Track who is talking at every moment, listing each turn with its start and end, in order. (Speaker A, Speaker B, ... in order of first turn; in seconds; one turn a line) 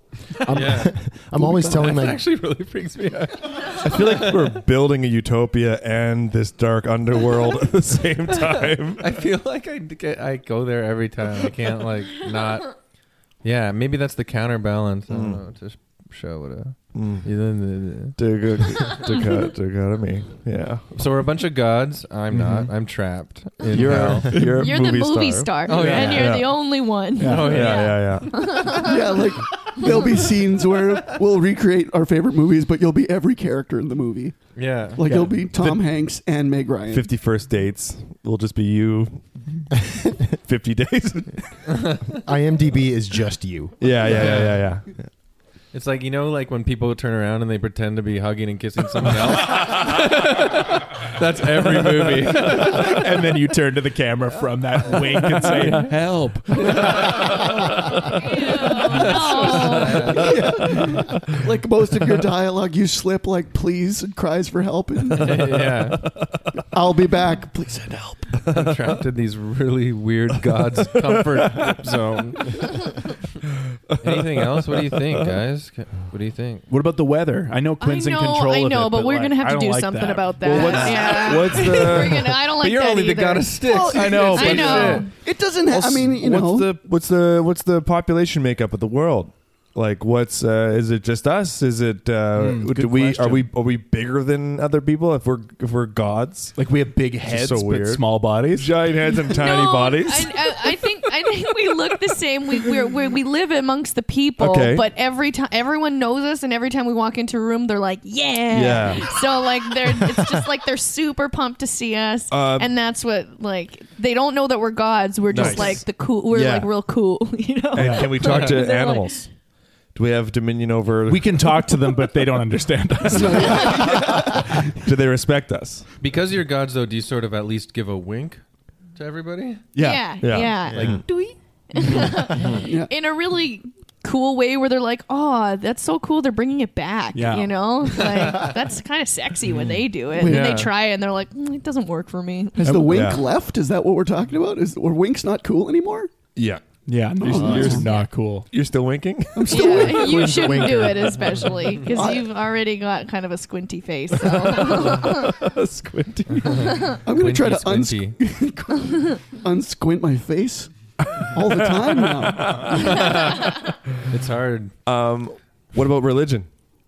Speaker A: 0.4-2.2
Speaker B: 0.5-1.0
Speaker C: 1.4-2.0
Speaker B: 1.6-4.6
Speaker D: 3.7-9.1
Speaker B: 8.3-12.8
Speaker B: 13.4-18.2
Speaker D: 15.1-15.4
Speaker D: 16.9-17.3
Speaker D: 18.2-20.9
Speaker B: 18.7-19.0
Speaker B: 20.9-24.4
Speaker D: 23.7-26.6
Speaker E: 24.6-29.0
Speaker B: 25.7-26.4
Speaker F: 25.9-26.2
Speaker F: 27.2-27.6
Speaker B: 27.2-28.1
Speaker D: 27.4-28.9
Speaker C: 28.7-34.4
Speaker B: 34.6-35.0
Speaker C: 35.0-37.1
Speaker D: 35.0-35.8
Speaker D: 36.9-41.7
Speaker B: 41.7-42.2
Speaker A: 42.2-44.4
Speaker D: 43.8-44.9
Speaker B: 44.1-44.6
Speaker B: 45.7-53.0
Speaker F: 52.5-57.2
Speaker B: 55.5-55.9
Speaker B: 56.5-60.6
Speaker E: 58.2-60.2
Speaker C: 58.4-65.8
Speaker B: 65.2-66.0
Speaker C: 66.7-68.3
Speaker D: 68.4-69.0
Speaker B: 68.5-72.7
Speaker D: 70.6-72.0
Speaker B: 74.0-76.7
Speaker D: 74.0-75.3
Speaker F: 76.7-81.6
Speaker E: 77.8-85.1
Speaker D: 80.5-82.4
Speaker B: 81.6-85.1
Speaker C: 83.6-86.7
Speaker F: 84.0-84.6
Speaker D: 85.7-96.6
Speaker F: 92.3-93.5
Speaker F: 96.6-98.8
Speaker A: 97.2-98.0
Speaker D: 98.5-100.6
Speaker E: 99.2-119.3
Speaker D: 104.4-104.9
Speaker D: 108.5-109.1
Speaker D: 112.3-112.7
Speaker D: 115.3-116.7
Speaker F: 115.4-115.8
Speaker D: 117.8-119.3
Speaker F: 117.8-118.2
Speaker B: 118.2-118.6
Speaker D: 120.0-122.1
Speaker F: 121.1-124.2
Speaker C: 123.1-124.1
Speaker D: 123.4-125.9
Speaker B: 126.0-128.4
Speaker B: 128.9-129.7
Speaker F: 129.8-130.2
Speaker E: 129.8-142.7
Speaker D: 130.2-131.0
Speaker A: 130.7-131.0
Speaker D: 132.4-132.6
Speaker C: 132.5-132.9
Speaker F: 137.1-138.3
Speaker C: 140.1-140.6
Speaker B: 140.2-140.7
Speaker C: 142.6-146.1
Speaker F: 142.7-143.0
Speaker D: 142.9-143.2
Speaker D: 146.4-146.7
Speaker F: 146.9-148.5
Speaker C: 147.2-147.9
Speaker D: 147.2-151.1
Speaker E: 147.8-148.1
Speaker C: 149.3-150.6
Speaker E: 149.5-155.3
Speaker A: 150.1-151.1
Speaker C: 151.8-152.3
Speaker D: 154.2-157.0
Speaker B: 156.3-158.2
Speaker C: 156.9-160.7
Speaker D: 161.2-163.2
Speaker C: 161.3-163.0
Speaker B: 162.7-164.7
Speaker E: 163.0-163.6
Speaker D: 164.9-166.5